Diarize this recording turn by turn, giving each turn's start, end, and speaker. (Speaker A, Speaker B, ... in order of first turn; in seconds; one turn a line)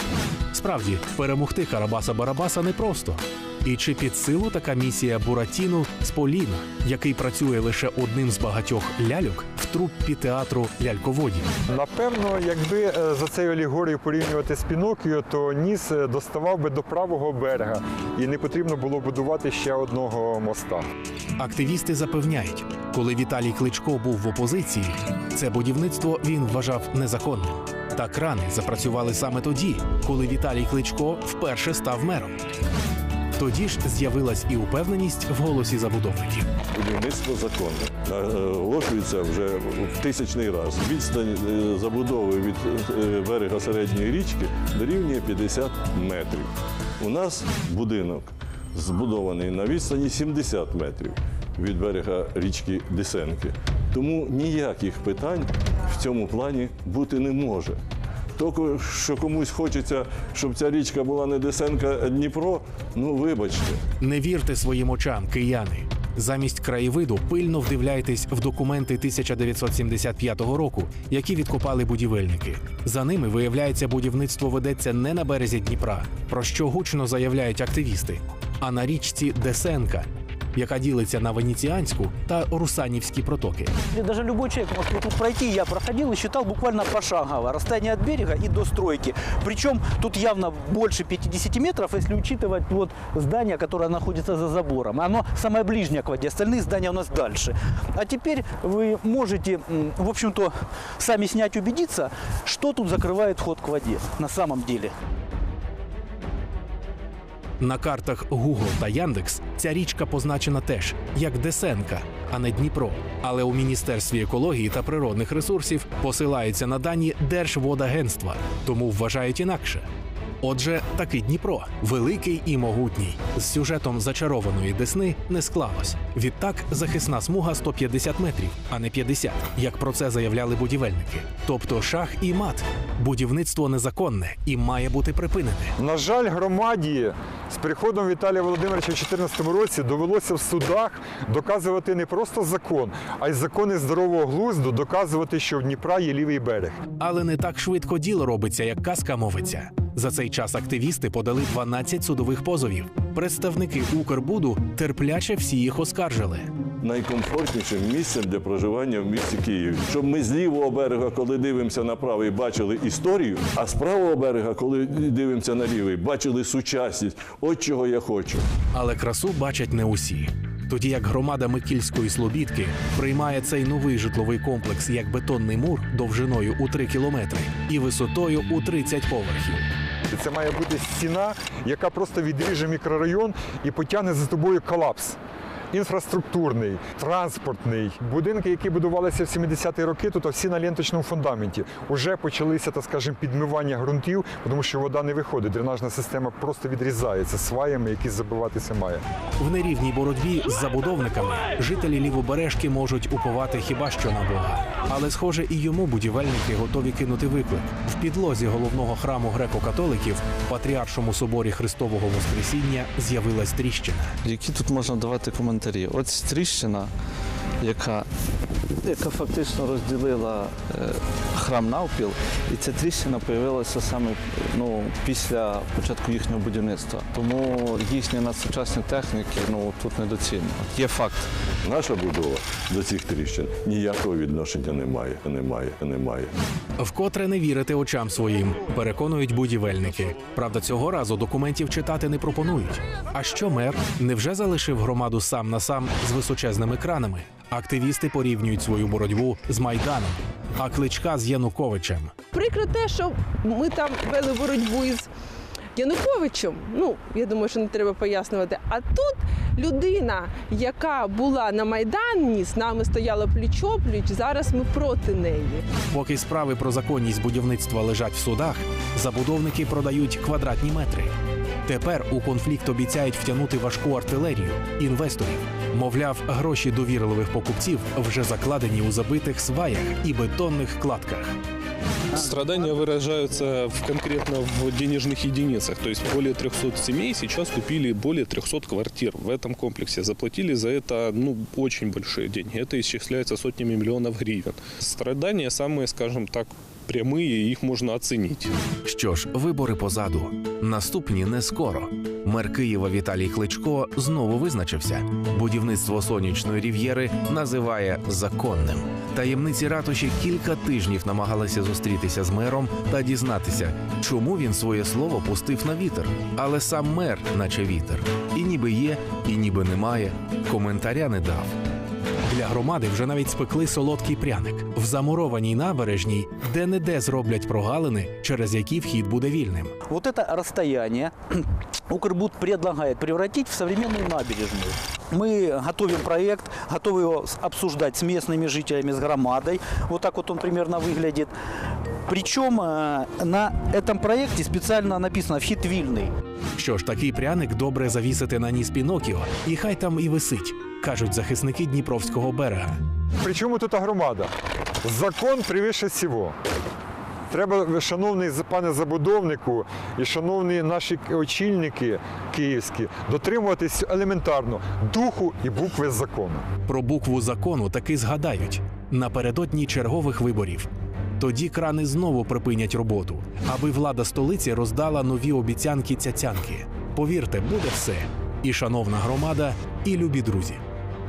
Speaker A: 0.5-11.5
Speaker B: 11.7-20.8
Speaker A: 21.4-32.4
Speaker A: 33.4-36.5
Speaker C: 36.7-57.8
Speaker C: 58.4-63.8
Speaker A: 64.0-83.7
Speaker D: 83.9-104.9
Speaker A: 107.6-119.9
Speaker A: 120.4-135.7
Speaker B: 135.8-146.8
Speaker A: 147.0-156.5
Speaker C: 156.8-168.4
Speaker A: 168.7-179.7
Speaker B: 180.1-185.2
Speaker B: 185.7-199.0
Speaker A: 199.4-214.1
Speaker E: 214.3-216.9
Speaker E: 217.7-218.0
Speaker E: 218.9-231.2
Speaker C: 231.6-236.4
Speaker A: 236.8-252.1
Speaker F: 252.3-255.1
Speaker F: 255.8-265.7
Speaker A: 265.9-281.4
Speaker G: 282.2-298.5
Speaker A: 298.9-321.5
Speaker A: 322.2-329.8
Speaker D: 329.9-346.1
Speaker A: 346.6-352.8
Speaker B: 353.2-354.3
Speaker B: 354.8-356.4
Speaker B: 357.3-366.4
Speaker A: 366.7-380.6